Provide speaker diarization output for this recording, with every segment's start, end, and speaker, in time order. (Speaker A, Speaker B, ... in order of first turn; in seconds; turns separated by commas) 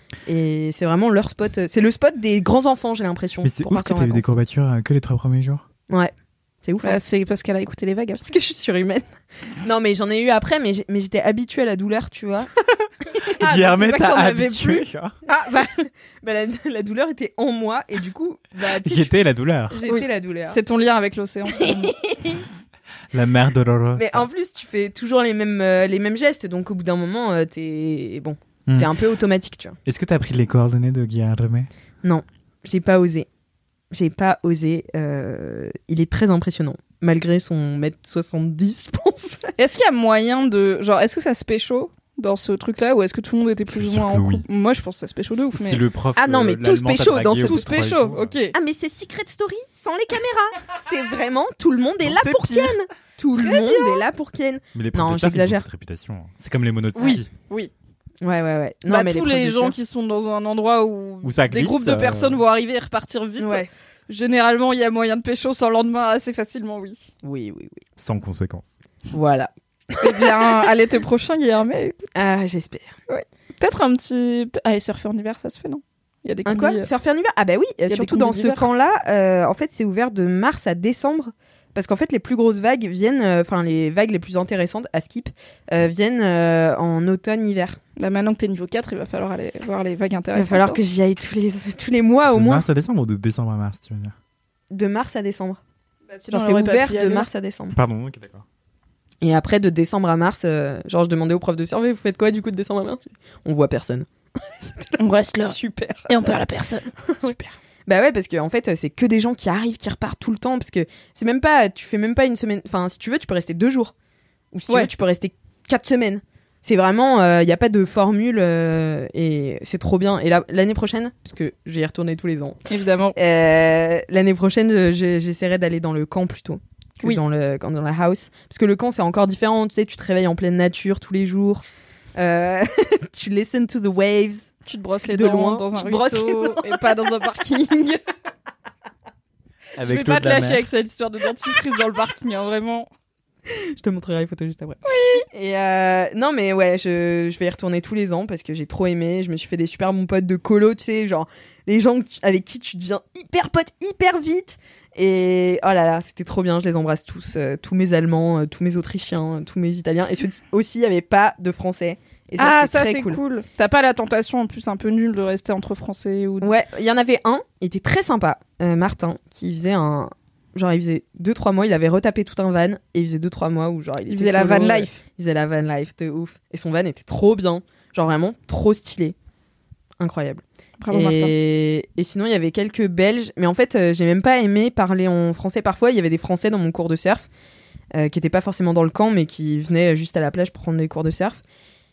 Speaker A: 0.3-4.3, Speaker B: 3.4-5.7, Speaker A: 6.6-7.0, Speaker C: 6.8-8.3, Speaker A: 8.2-12.5, Speaker B: 13.4-15.2, Speaker C: 13.4-15.9, Speaker A: 16.2-19.1, Speaker B: 18.6-19.8, Speaker A: 19.7-20.6, Speaker C: 19.9-21.9, Speaker A: 21.6-22.4, Speaker B: 23.1-24.3, Speaker A: 24.0-29.8, Speaker B: 28.7-28.9, Speaker B: 29.9-31.7, Speaker A: 32.0-33.3, Speaker A: 33.9-39.5, Speaker C: 39.6-45.8, Speaker B: 43.7-44.5, Speaker B: 45.5-48.4, Speaker A: 46.2-47.7, Speaker C: 47.4-48.5, Speaker A: 48.5-55.6, Speaker B: 52.1-52.6, Speaker C: 52.3-52.7, Speaker C: 53.3-54.0, Speaker B: 54.7-57.3, Speaker C: 57.0-57.7, Speaker A: 58.2-59.8, Speaker C: 58.9-67.1, Speaker B: 61.2-62.4, Speaker A: 63.4-63.7, Speaker A: 67.2-67.8, Speaker B: 68.0-68.7, Speaker A: 69.1-70.5, Speaker C: 70.0-72.2, Speaker A: 72.2-72.9, Speaker C: 73.1-76.9, Speaker A: 76.5-87.8, Speaker C: 77.9-78.7, Speaker C: 88.0-90.8, Speaker A: 90.3-92.7, Speaker B: 92.3-94.2, Speaker A: 94.7-95.6, Speaker C: 96.1-97.3, Speaker A: 96.3-97.8, Speaker B: 97.7-98.5, Speaker A: 99.2-104.1, Speaker A: 104.7-106.4, Speaker C: 105.0-105.6, Speaker C: 106.1-107.5, Speaker A: 107.1-107.4, Speaker A: 107.9-113.9, Speaker A: 114.5-122.6, Speaker C: 122.7-123.2, Speaker A: 123.2-131.6, Speaker A: 132.2-134.5, Speaker C: 134.7-138.0, Speaker A: 135.1-136.8, Speaker B: 139.8-140.7, Speaker C: 139.8-142.9, Speaker A: 143.5-163.2, Speaker C: 144.8-145.3, Speaker C: 162.4-166.5, Speaker A: 166.4-179.2, Speaker C: 174.1-175.0, Speaker A: 180.0-187.3, Speaker C: 180.8-181.3, Speaker A: 187.9-191.4